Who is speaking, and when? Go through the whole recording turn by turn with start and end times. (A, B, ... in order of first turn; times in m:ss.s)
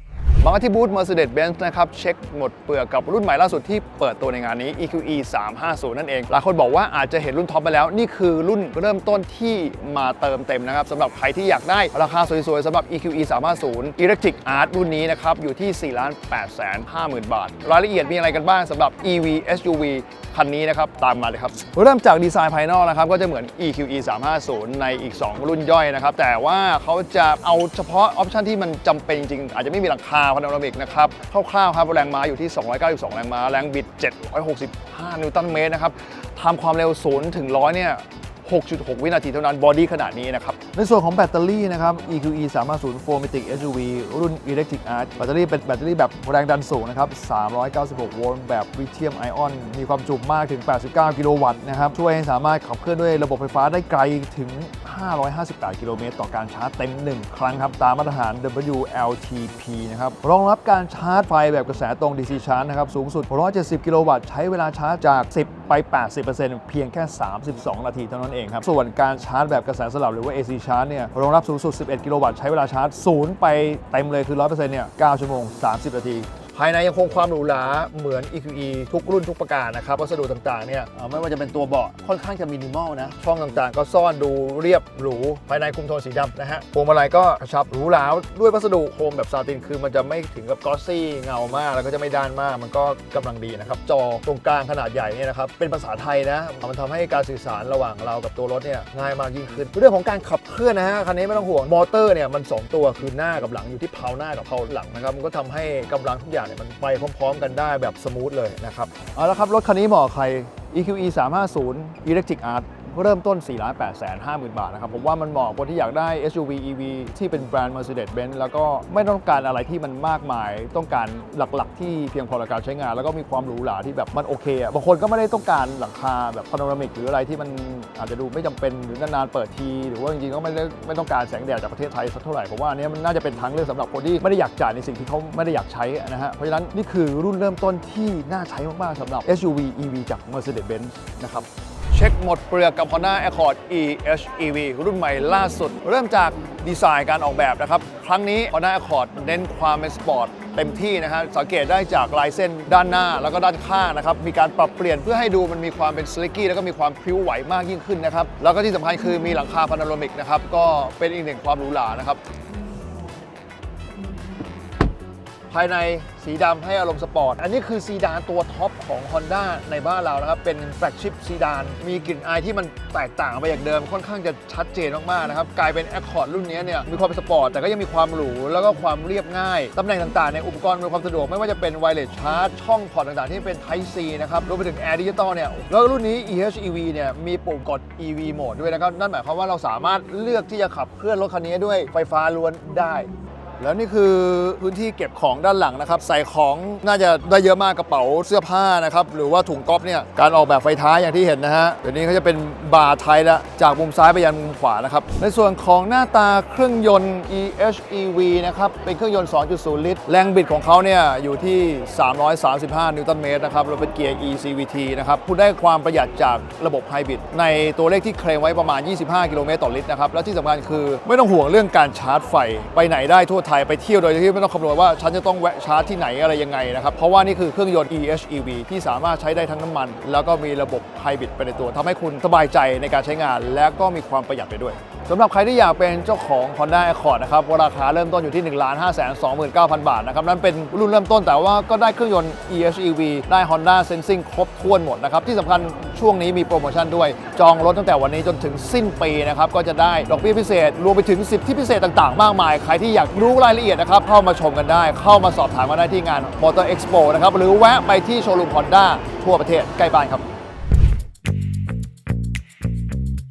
0:00.4-2:42.2 A
2:45.5-4:20.2 A